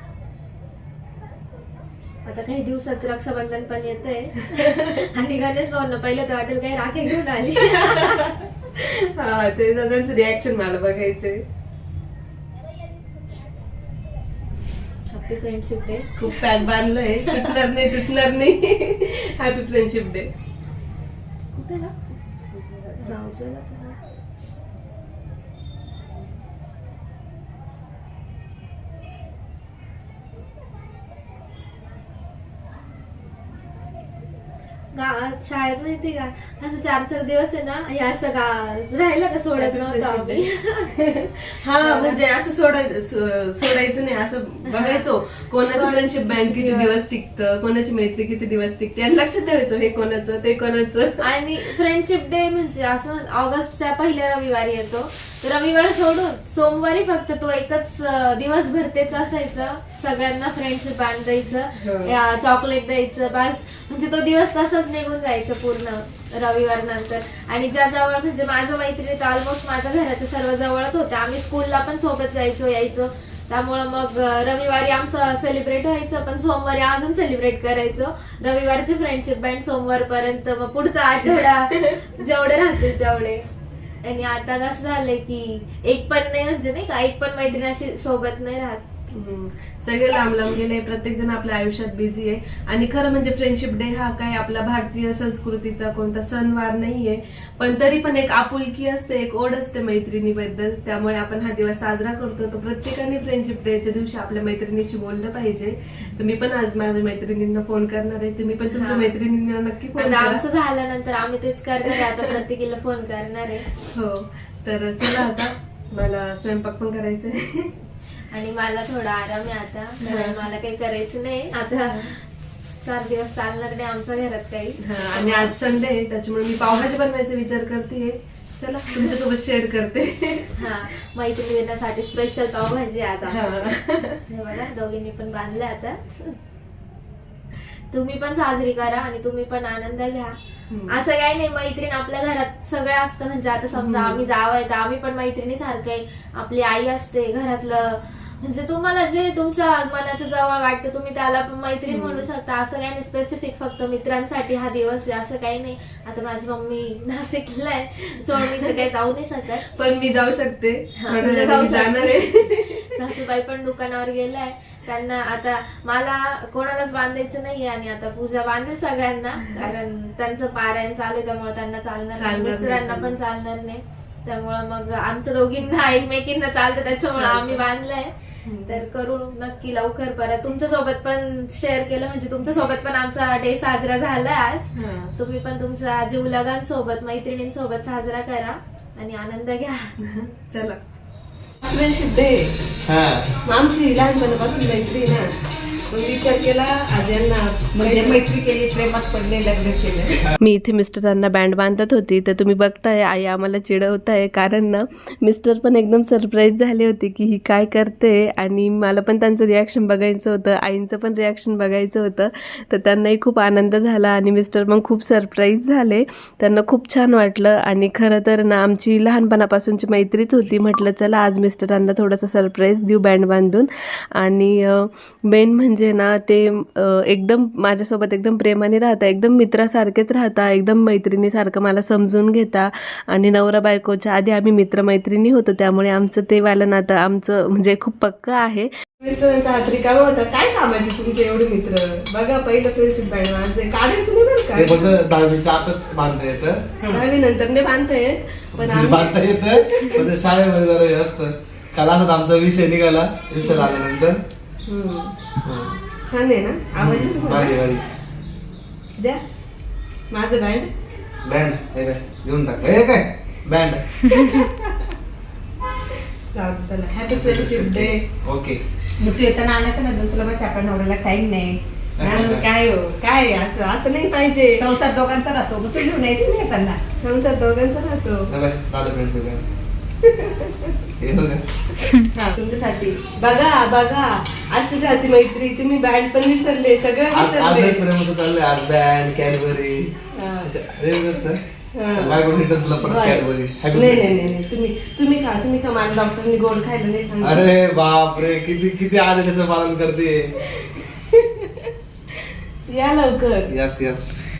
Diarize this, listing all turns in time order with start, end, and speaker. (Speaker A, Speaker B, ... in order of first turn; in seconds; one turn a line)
Speaker A: 2.2-8.3
Speaker B: 4.6-5.0
Speaker B: 7.7-11.4
Speaker A: 15.1-16.7
Speaker B: 16.1-20.3
Speaker A: 17.2-17.9
Speaker A: 21.5-21.9
Speaker B: 22.7-23.1
Speaker A: 23.0-24.0
Speaker A: 34.9-41.3
Speaker B: 39.5-40.4
Speaker B: 41.6-51.2
Speaker A: 41.8-42.2
Speaker A: 44.7-45.1
Speaker A: 45.6-47.0
Speaker A: 51.2-83.5
Speaker B: 61.8-62.1
Speaker B: 81.3-82.0
Speaker A: 84.0-88.8
Speaker B: 89.1-110.4
Speaker A: 108.7-109.2
Speaker A: 110.0-113.9
Speaker B: 111.8-112.3
Speaker B: 113.9-117.7
Speaker A: 118.3-122.2
Speaker B: 120.0-120.4
Speaker A: 122.8-125.5
Speaker B: 124.8-130.7
Speaker A: 130.6-136.4
Speaker B: 133.2-134.2
Speaker A: 137.9-140.3
Speaker B: 140.7-141.0
Speaker A: 140.9-159.7
Speaker B: 143.7-144.3
Speaker B: 151.9-152.2
Speaker B: 158.3-158.7
Speaker B: 159.7-163.1
Speaker A: 161.0-178.1
Speaker B: 172.2-173.1
Speaker B: 177.2-177.6
Speaker B: 178.4-178.8
Speaker A: 178.6-189.9
Speaker B: 184.7-185.1
Speaker B: 190.0-190.8
Speaker B: 191.6-192.5
Speaker C: 192.9-193.3
Speaker B: 193.4-195.3
Speaker B: 195.9-198.2
Speaker D: 197.7-200.2
Speaker B: 200.4-245.0
Speaker C: 244.6-246.9
Speaker B: 246.8-250.1
Speaker C: 248.6-254.2
Speaker B: 253.4-253.7
Speaker B: 254.7-255.2
Speaker C: 255.4-255.8
Speaker B: 256.0-257.6
Speaker C: 256.8-257.8
Speaker B: 259.0-259.2
Speaker B: 260.1-260.7
Speaker C: 261.2-263.9
Speaker B: 264.0-264.9
Speaker B: 266.3-268.0
Speaker D: 267.0-267.5
Speaker C: 267.1-268.6
Speaker D: 269.0-272.3
Speaker C: 272.0-272.4
Speaker B: 272.0-274.7
Speaker D: 274.6-276.8
Speaker B: 275.7-276.3
Speaker B: 277.0-278.3
Speaker C: 278.3-279.4
Speaker B: 280.0-280.8
Speaker C: 281.0-281.4
Speaker B: 282.0-287.8
Speaker C: 287.1-289.9
Speaker B: 290.1-290.5
Speaker C: 290.4-291.4
Speaker B: 291.7-292.2
Speaker C: 291.9-294.3
Speaker B: 292.8-297.5
Speaker C: 297.2-300.2
Speaker B: 300.5-301.7
Speaker B: 302.7-303.5
Speaker C: 303.5-304.2